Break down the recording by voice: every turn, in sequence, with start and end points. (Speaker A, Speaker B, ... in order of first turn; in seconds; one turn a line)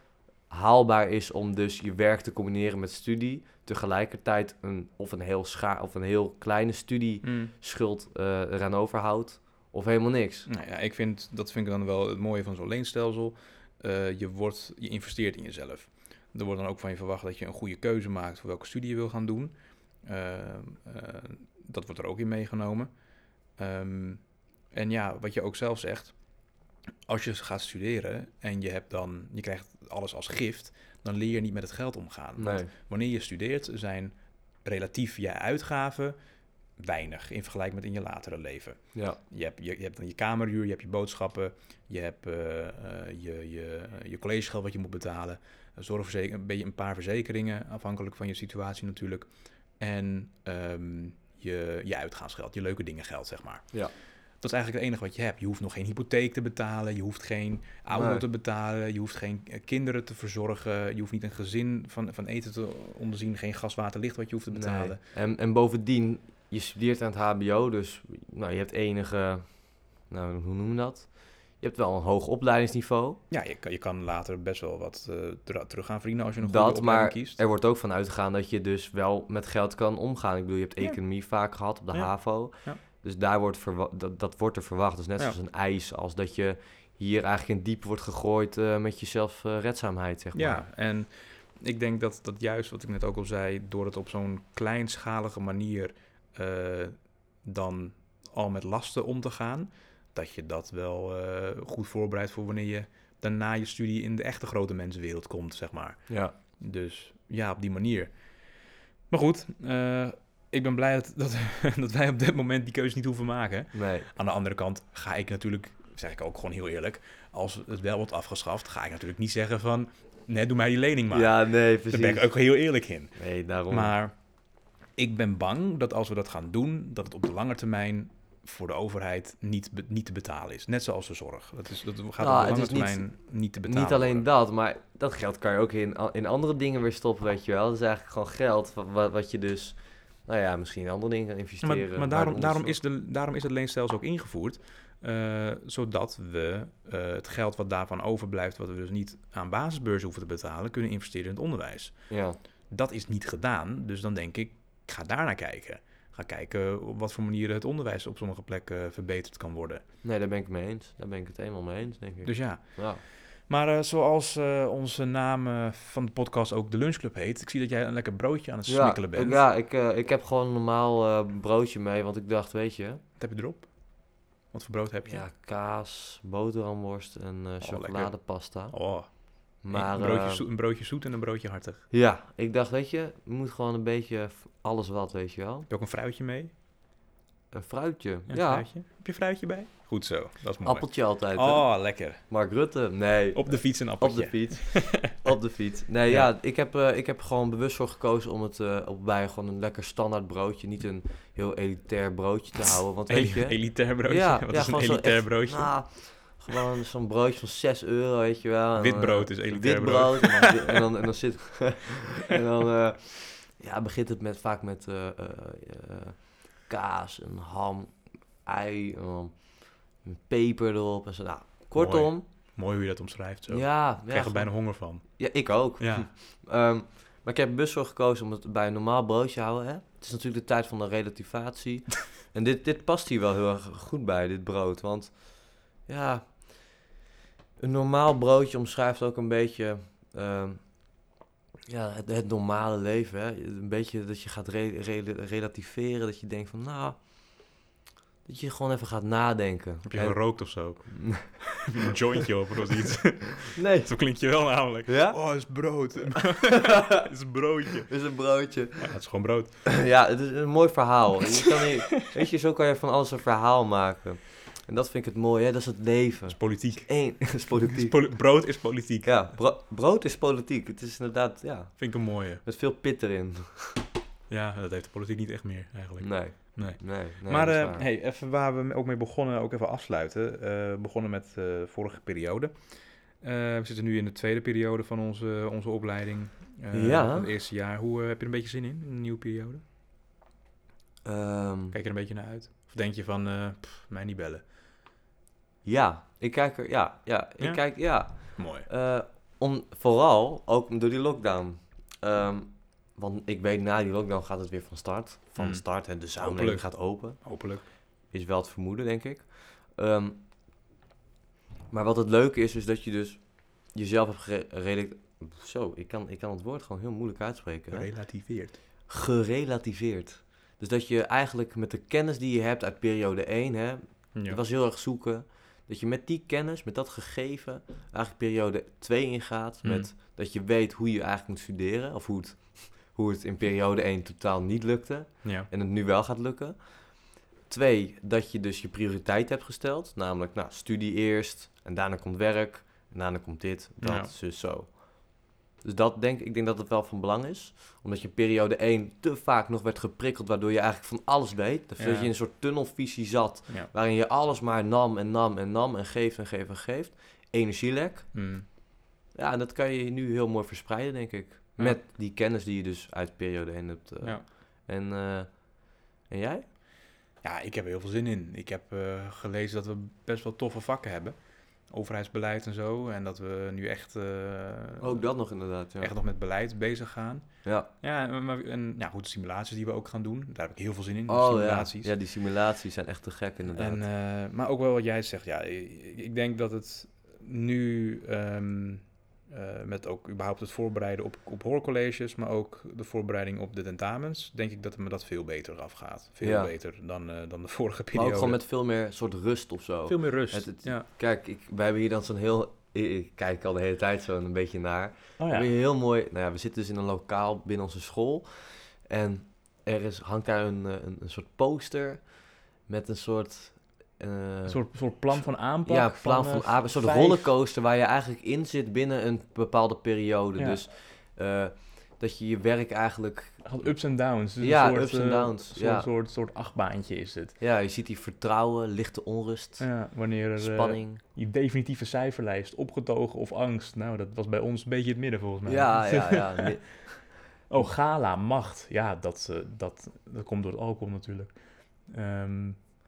Speaker A: 0.5-10.5
Speaker B: 7.2-7.5
Speaker B: 10.5-22.9
Speaker B: 23.6-24.2
Speaker B: 24.7-26.1
Speaker B: 27.1-36.1
Speaker A: 32.4-32.7
Speaker B: 36.8-49.3
Speaker B: 49.8-53.7
Speaker B: 54.4-65.0
Speaker A: 57.9-58.2
Speaker A: 64.5-69.5
Speaker A: 70.1-73.2
Speaker B: 73.3-77.4
Speaker A: 76.4-90.7
Speaker B: 90.3-108.1
Speaker A: 106.1-106.3
Speaker B: 109.1-121.4
Speaker A: 113.7-114.1
Speaker A: 121.1-122.3
Speaker B: 121.9-123.2
Speaker A: 123.2-123.9
Speaker B: 123.7-124.1
Speaker B: 125.0-134.2
Speaker A: 132.2-133.1
Speaker A: 133.7-142.8
Speaker B: 141.6-151.9
Speaker A: 152.1-152.4
Speaker B: 152.7-159.8
Speaker A: 160.0-163.0
Speaker B: 162.2-162.9
Speaker B: 163.5-169.4
Speaker A: 168.7-173.0
Speaker B: 173.2-173.7
Speaker B: 174.5-175.2
Speaker A: 175.1-178.8
Speaker B: 177.6-181.8
Speaker A: 179.6-180.4
Speaker A: 181.9-185.7
Speaker B: 185.7-186.5
Speaker A: 187.5-188.7
Speaker B: 188.3-192.2
Speaker A: 190.7-217.9
Speaker B: 193.3-195.2
Speaker B: 203.1-205.8
Speaker B: 208.8-210.8
Speaker A: 218.4-222.2
Speaker B: 221.8-225.2
Speaker A: 223.5-235.3
Speaker B: 225.8-226.1
Speaker A: 235.8-236.5
Speaker A: 237.6-240.6
Speaker A: 241.7-247.0
Speaker A: 248.2-250.2
Speaker B: 249.8-257.9
Speaker A: 250.8-251.4
Speaker A: 253.5-253.9
Speaker A: 254.9-255.2
Speaker A: 256.1-257.1
Speaker A: 257.9-258.9
Speaker B: 258.8-259.5
Speaker A: 259.6-268.0
Speaker B: 266.3-269.4
Speaker A: 269.0-271.9
Speaker B: 271.8-272.4
Speaker A: 272.4-273.8
Speaker B: 274.3-282.6
Speaker A: 276.0-277.8
Speaker B: 283.2-289.6
Speaker A: 286.7-287.3
Speaker A: 291.1-291.8
Speaker B: 291.7-294.4
Speaker A: 295.6-307.2
Speaker B: 297.4-298.7
Speaker B: 305.4-305.6
Speaker B: 306.2-307.6
Speaker A: 308.1-310.2
Speaker A: 311.7-317.9
Speaker B: 317.7-318.6
Speaker A: 318.9-336.6
Speaker B: 324.1-324.4
Speaker B: 329.6-329.9
Speaker B: 335.2-335.5
Speaker A: 337.5-344.8
Speaker B: 343.8-344.1
Speaker A: 345.6-358.1
Speaker B: 351.8-352.1
Speaker B: 358.1-358.5
Speaker A: 359.1-365.5
Speaker A: 366.1-366.4
Speaker B: 367.2-371.2
Speaker B: 371.7-375.1
Speaker A: 374.8-375.9
Speaker B: 375.8-377.3
Speaker B: 377.8-381.9
Speaker A: 381.1-383.8
Speaker B: 383.5-398.4
Speaker A: 396.2-396.5
Speaker A: 397.9-412.1
Speaker B: 399.9-400.9
Speaker B: 405.2-405.5
Speaker A: 412.7-414.6
Speaker B: 414.5-417.3
Speaker A: 415.7-423.4
Speaker B: 423.4-427.4
Speaker A: 424.4-425.9
Speaker A: 427.4-429.7
Speaker B: 429.6-436.5
Speaker A: 430.4-431.0
Speaker A: 435.5-437.0
Speaker B: 437.5-441.3
Speaker B: 441.9-442.6